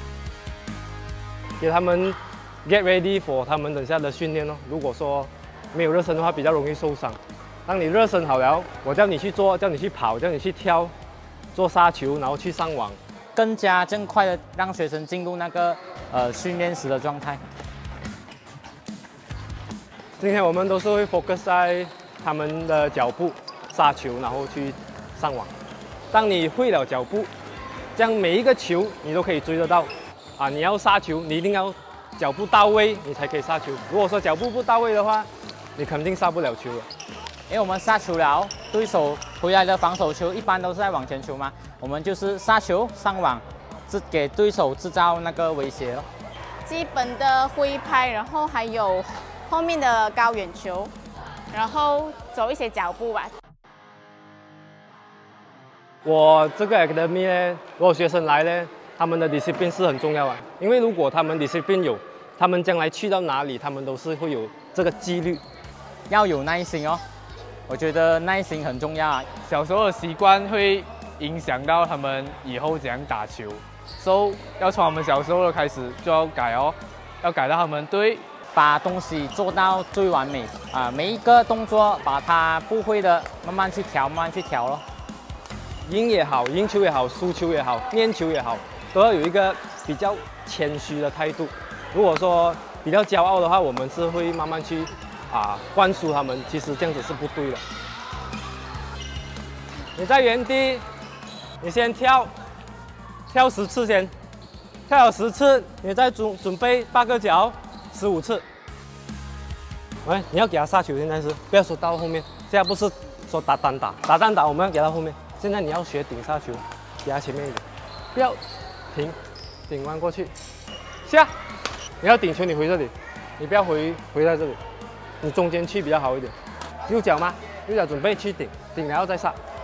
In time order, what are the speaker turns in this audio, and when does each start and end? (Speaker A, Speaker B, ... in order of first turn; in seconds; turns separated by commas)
Speaker A: 1.6-10.9, Speaker A: 11.5-13.0, Speaker B: 13.4-17.4, Speaker A: 20.2-25.5, Speaker A: 26.1-27.3, Speaker A: 28.0-36.9, Speaker B: 37.5-46.1, Speaker C: 46.7-50.9, Speaker C: 51.5-53.3, Speaker A: 56.0-65.4, Speaker B: 66.1-67.0, Speaker B: 67.7-69.3, Speaker D: 69.4-78.2, Speaker B: 78.5-84.8, Speaker A: 85.8-97.6, Speaker A: 100.0-100.8, Speaker A: 101.6-102.3, Speaker A: 103.3-104.1, Speaker A: 104.9-108.4, Speaker A: 110.0-118.4, Speaker A: 118.9-120.3, Speaker A: 121.0-121.3, Speaker A: 122.0-124.6, Speaker A: 125.2-126.4, Speaker A: 126.9-129.4